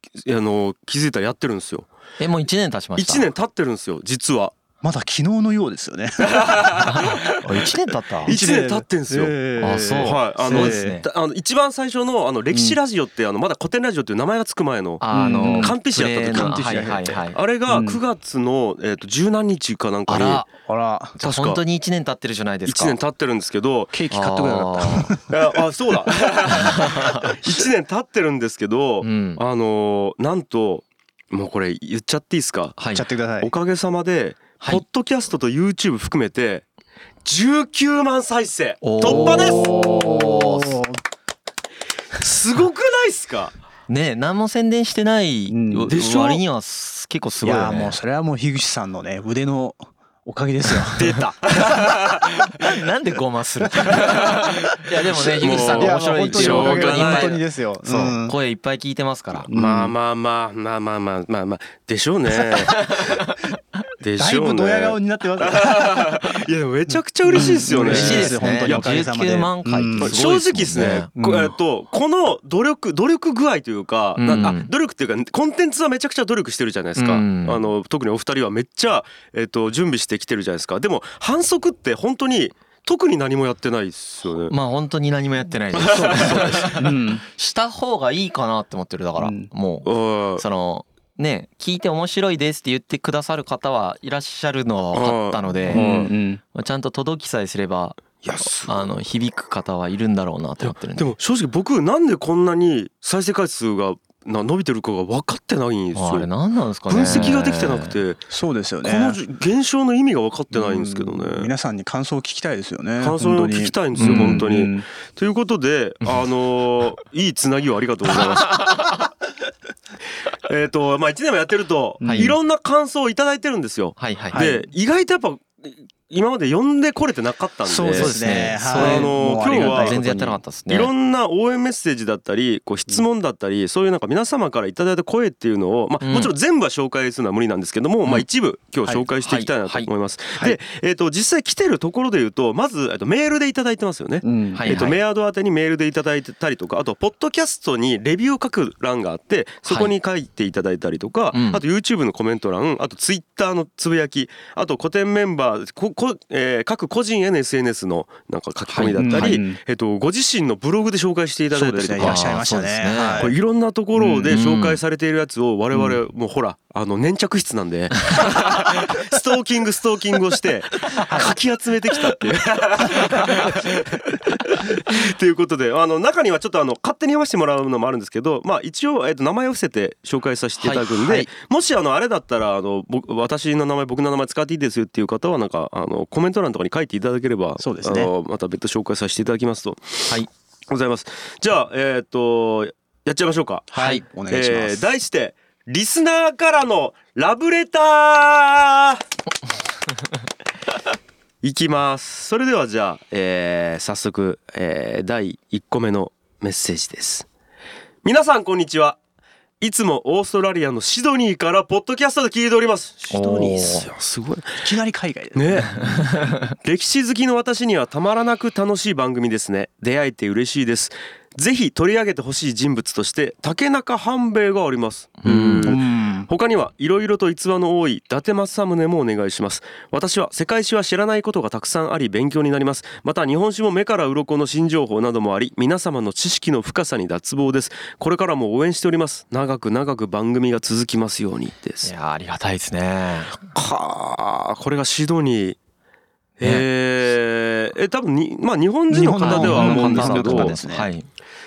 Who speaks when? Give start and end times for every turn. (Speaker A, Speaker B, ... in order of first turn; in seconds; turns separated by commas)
Speaker A: 0.2-1.9, Speaker B: 2.2-3.3, Speaker A: 3.0-4.5, Speaker C: 4.8-7.2, Speaker A: 6.4-7.1, Speaker B: 6.8-8.3, Speaker C: 8.2-11.0, Speaker A: 8.3-9.3, Speaker B: 9.6-11.1, Speaker A: 10.0-20.5, Speaker C: 12.5-12.8, Speaker B: 15.0-17.4, Speaker C: 15.1-18.0, Speaker B: 20.1-20.4, Speaker C: 20.7-21.2, Speaker B: 21.2-23.0, Speaker A: 21.2-21.6, Speaker A: 22.7-24.0, Speaker C: 23.9-25.4, Speaker B: 24.1-25.1, Speaker A: 25.3-32.8, Speaker C: 26.5-27.3, Speaker B: 26.5-27.4, Speaker B: 29.0-29.4, Speaker B: 32.8-33.1, Speaker C: 32.9-33.5, Speaker A: 33.4-36.7, Speaker A: 37.2-39.7, Speaker B: 38.8-40.8, Speaker C: 39.0-41.0, Speaker A: 42.2-43.5, Speaker B: 43.9-48.0, Speaker C: 45.5-46.0, Speaker A: 45.9-46.4, Speaker C: 47.4-51.2, Speaker A: 51.0-52.5, Speaker B: 52.6-59.5, Speaker C: 53.8-54.4, Speaker C: 54.9-58.4, Speaker A: 55.4-57.4, Speaker C: 59.5-60.0, Speaker A: 59.5-62.9, Speaker C: 62.4-63.2, Speaker B: 62.8-63.3, Speaker A: 64.0-69.0, Speaker C: 64.2-66.4, Speaker C: 66.9-70.2, Speaker B: 67.3-71.1, Speaker A: 70.0-84.6, Speaker C: 71.2-71.5, Speaker B: 74.2-74.7, Speaker B: 77.0-77.7, Speaker B: 84.5-101.1, Speaker A: 85.8-86.7, Speaker C: 85.8-87.2, Speaker C: 89.2-89.5, Speaker A: 89.8-90.4, Speaker A: 94.9-96.1, Speaker C: 95.7-96.4, Speaker A: 98.2-99.0, Speaker A: 100.6-106.3, Speaker B: 105.9-108.0, Speaker A: 106.9-108.3, Speaker C: 107.0-107.3, Speaker C: 108.3-109.2, Speaker A: 108.8-111.5, Speaker C: 110.5-114.9, Speaker A: 113.0-118.9, Speaker B: 114.0-114.5, Speaker B: 116.0-116.3, Speaker A: 120.5-130.0, Speaker C: 122.0-122.4, Speaker B: 122.0-122.3, Speaker B: 124.0-124.4, Speaker C: 124.3-124.7, Speaker C: 127.7-130.4, Speaker B: 127.9-130.9, Speaker A: 130.7-162.2, Speaker B: 136.0-136.3, Speaker B: 139.2-139.9, Speaker C: 144.2-144.9, Speaker B: 144.5-145.0, Speaker B: 149.7-149.9, Speaker B: 151.3-151.6, Speaker B: 158.7-159.4, Speaker C: 159.0-159.6, Speaker C: 161.5-163.3, Speaker B: 162.0-163.3, Speaker A: 163.2-199.0, Speaker C: 164.0-164.3, Speaker B: 164.3-164.8, Speaker C: 165.7-166.0, Speaker C: 171.1-171.3, Speaker B: 180.6-181.0, Speaker C: 187.6-188.1, Speaker C: 193.7-194.9, Speaker A: 201.4-207.3, Speaker A: 208.0-209.0, Speaker A: 209.6-214.7, Speaker B: 213.1-213.9, Speaker C: 214.6-216.0, Speaker A: 215.3-241.9, Speaker B: 215.8-216.3, Speaker B: 225.2-225.8, Speaker C: 225.6-226.3, Speaker B: 241.8-243.5, Speaker A: 243.4-245.6, Speaker A: 246.4-250.6, Speaker B: 246.4-246.7, Speaker C: 248.9-250.9, Speaker B: 249.2-251.1